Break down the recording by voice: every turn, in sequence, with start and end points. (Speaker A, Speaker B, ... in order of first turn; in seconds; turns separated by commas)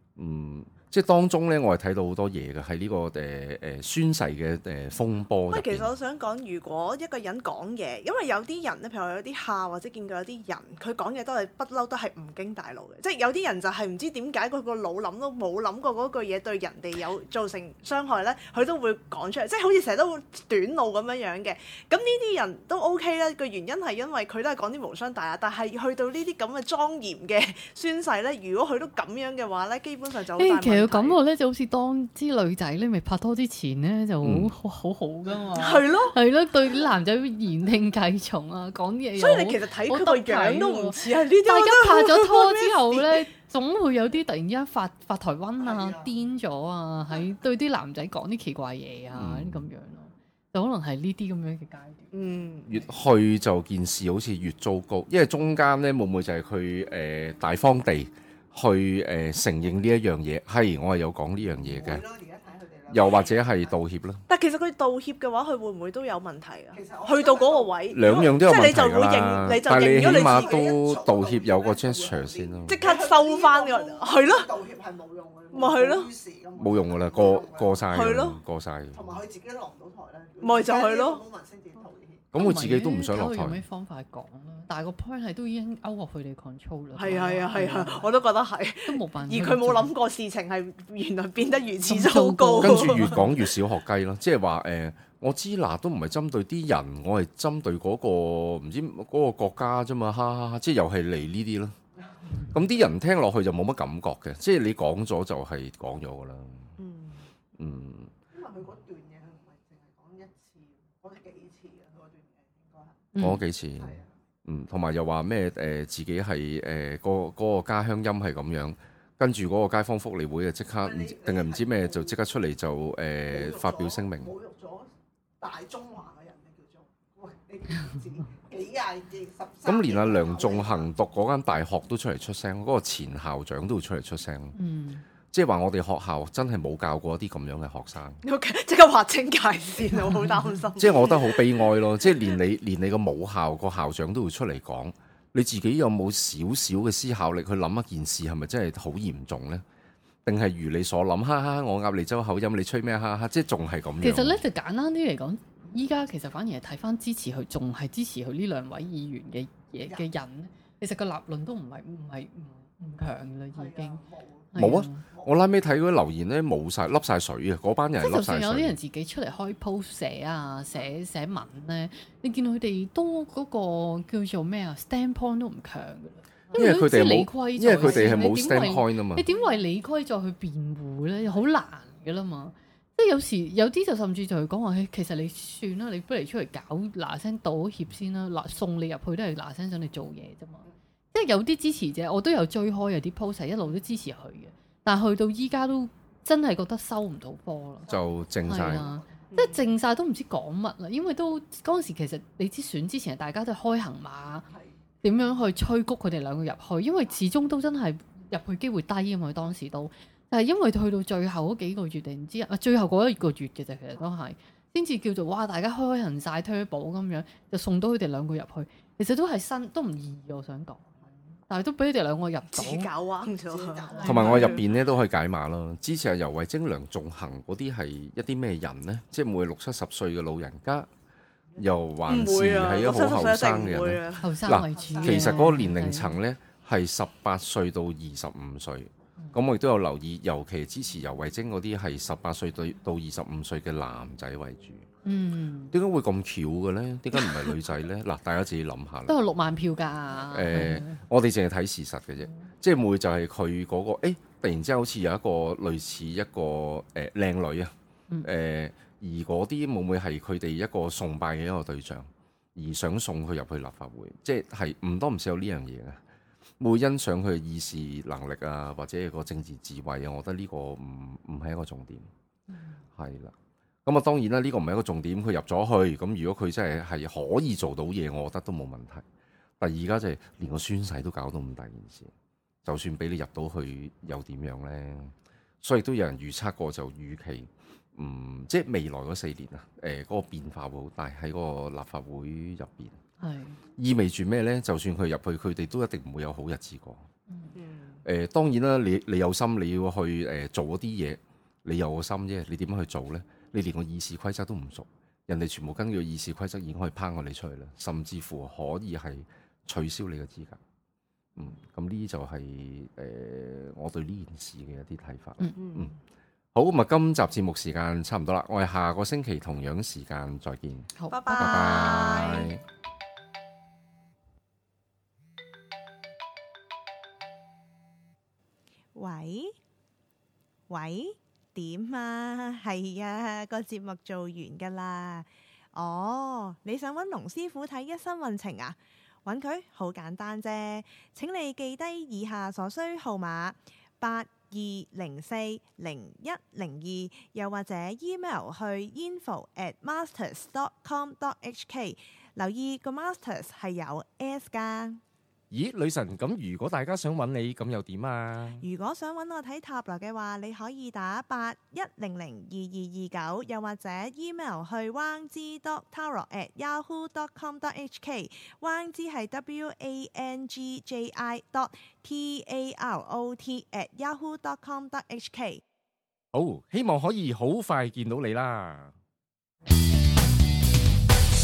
Speaker A: 0.2-5.9, Speaker B: 5.5-31.2, Speaker C: 30.4-52.9, Speaker A: 34.2-34.5, Speaker D: 35.3-36.1, Speaker B: 35.6-36.2, Speaker B: 39.2-43.2, Speaker D: 45.6-46.1, Speaker A: 49.1-49.6, Speaker B: 52.1-52.7, Speaker A: 52.7-62.0, Speaker D: 61.5-63.8, Speaker A: 62.9-64.2, Speaker B: 64.3-70.7, Speaker D: 66.7-68.4, Speaker A: 67.9-72.8, Speaker D: 69.7-78.0, Speaker B: 72.7-74.5, Speaker B: 75.5-76.1, Speaker A: 76.6-79.2, Speaker B: 77.9-78.4, Speaker D: 78.9-82.3, Speaker B: 80.4-81.2, Speaker A: 82.3-83.6, Speaker C: 82.3-88.0, Speaker B: 87.0-93.4, Speaker D: 87.5-88.0, Speaker C: 88.8-89.9, Speaker C: 91.9-93.3, Speaker A: 92.6-101.8, Speaker A: 102.5-106.7, Speaker B: 106.8-107.3, Speaker A: 107.6-108.1, Speaker D: 108.3-114.2, Speaker C: 113.1-113.5, Speaker A: 113.2-124.3, Speaker D: 120.8-122.3, Speaker D: 123.3-124.9, Speaker D: 125.4-130.9, Speaker A: 129.7-134.6, Speaker C: 134.6-135.0, Speaker A: 135.3-138.2, Speaker B: 138.2-141.7, Speaker C: 139.9-140.4, Speaker A: 140.8-149.6, Speaker A: 150.2-154.4, Speaker C: 154.0-164.0, Speaker D: 163.5-165.4, Speaker C: 164.5-165.0, Speaker A: 164.6-168.8, Speaker C: 168.0-204.5, Speaker D: 176.5-176.8, Speaker A: 176.6-179.3, Speaker D: 177.7-178.5, Speaker D: 179.3-179.6, Speaker D: 181.2-181.5, Speaker D: 197.9-199.3, Speaker A: 197.9-198.9, Speaker B: 199.3-199.6, Speaker D: 204.5-204.8, Speaker C: 205.0-220.9, Speaker C: 221.5-222.9, Speaker B: 222.5-224.6, Speaker D: 223.5-224.7, Speaker C: 223.9-224.6, Speaker A: 224.0-230.9, Speaker A: 231.6-244.9, Speaker B: 232.1-234.3, Speaker D: 232.4-232.9, Speaker C: 234.2-236.2, Speaker D: 234.7-235.6, Speaker C: 245.1-245.7, Speaker A: 245.7-249.2, Speaker C: 249.1-251.0, Speaker A: 250.3-257.7, Speaker A: 258.2-266.0, Speaker A: 266.6-272.1, Speaker C: 272.5-272.8, Speaker A: 273.0-273.3, Speaker A: 273.9-279.0, Speaker A: 279.6-282.1, Speaker A: 282.6-293.0, Speaker C: 293.2-293.6, Speaker A: 293.8-297.0, Speaker C: 297.3-297.6, Speaker B: 297.6-298.0, Speaker A: 298.1-310.6, Speaker A: 311.4-315.9, Speaker B: 315.6-315.9, Speaker A: 316.5-322.6, Speaker C: 321.0-322.3, Speaker B: 321.1-322.6, Speaker B: 328.9-329.5, Speaker B: 330.7-355.0, Speaker A: 355.5-358.6, Speaker B: 358.6-375.6, Speaker A: 376.3-378.9